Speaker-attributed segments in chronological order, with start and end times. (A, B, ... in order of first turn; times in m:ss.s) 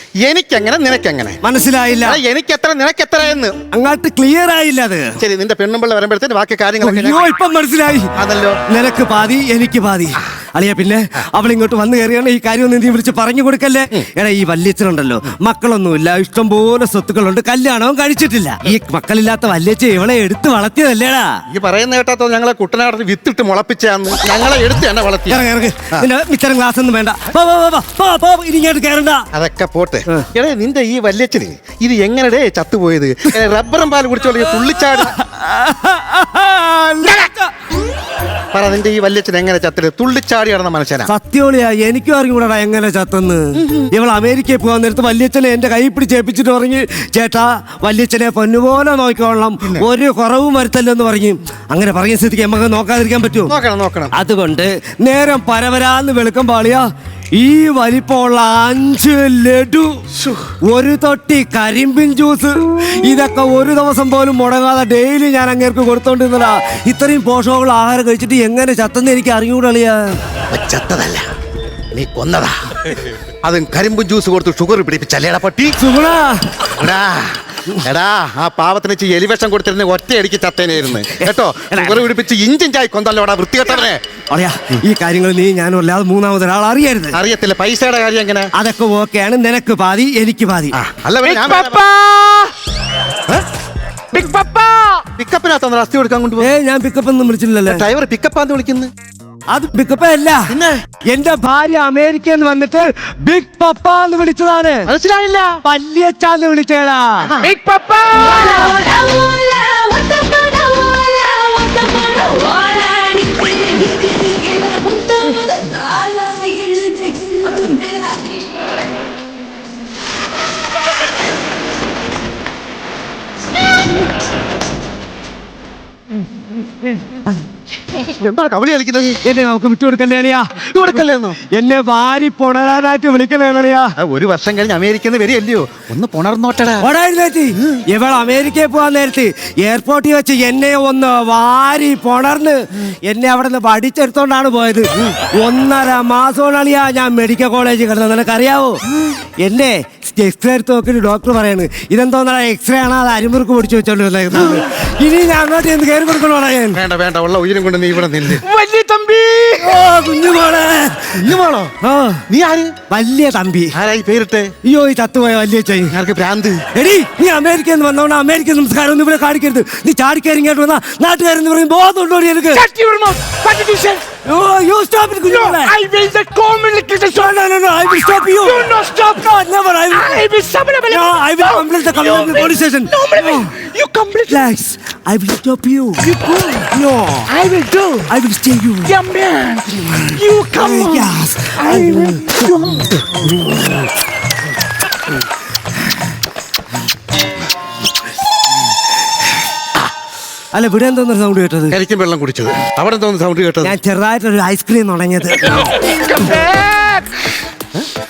0:00.2-0:01.4 A
0:01.4-0:02.2 B
0:02.0-0:03.6 A
0:03.7-0:05.2 B
0:05.2-0:07.2 A
0:06.8-0:08.1 B
0:08.2-0:08.6 A
0:08.7-0:21.4 B
0:21.5-0:26.1 A
0:25.3-0:29.2 B
0:29.3-0:35.1 A
0:34.9-0:37.5 B
0:38.5-0:41.1 A
0:41.1-0:53.5 B
0:43.5-0:43.9 A
0:53.5-0:54.1 A
0:54.1-1:00.0 B
1:00.2-1:00.4 A
1:00.7-1:10.1 B
1:10.5-1:11.3 A
1:11.9-1:15.8 A
1:15.8-1:16.4 B
1:16.7-1:24.0 A
1:21.1-1:22.0 B
1:24.3-1:27.2 B
1:27.1-1:28.5 A
1:28.5-1:30.8 B
1:30.7-1:31.8 A
1:31.2-1:32.5 C
1:34.1-1:35.0 C
1:35.2-1:36.5 A
1:36.4-1:37.8 B
1:37.7-1:38.9 A
1:39.5-1:40.5 B
1:40.5-1:40.8 A
1:41.1-1:44.9 B
1:44.9-1:45.6 A
1:45.6-1:47.3 B
1:47.4-1:58.4 C
2:08.0-2:09.2 A
2:09.2-2:13.9 B
2:10.7-2:11.4 A
2:14.0-2:16.9 A
2:16.8-2:28.8 B
2:29.4-2:36.8 B
2:36.7-2:38.4 A
2:38.4-2:39.8 C
2:39.6-2:41.3 B
2:41.1-2:41.7 A
2:41.8-2:42.2 B
2:42.3-2:42.7 A
2:42.9-2:43.7 B
2:43.8-2:44.5 A
2:44.6-2:45.9 B
2:45.9-2:46.6 A
2:46.7-2:52.6 B
2:52.5-2:54.0 C
2:54.2-2:55.8 B
2:55.3-2:57.4 C
2:57.1-3:00.2 B
2:58.2-2:59.3 C
2:59.9-3:04.4 C
3:00.9-3:03.5 B
3:04.3-3:06.1 B
3:06.0-3:06.7 C
3:06.7-3:07.3 B
3:07.3-3:08.1 C
3:08.1-3:08.9 B
3:08.8-3:13.0 C
3:10.6-3:12.3 B
3:13.1-3:13.7 B
3:20.5-3:21.8 B
3:21.7-3:23.8 A
3:23.6-3:25.7 B
3:25.9-3:27.5 C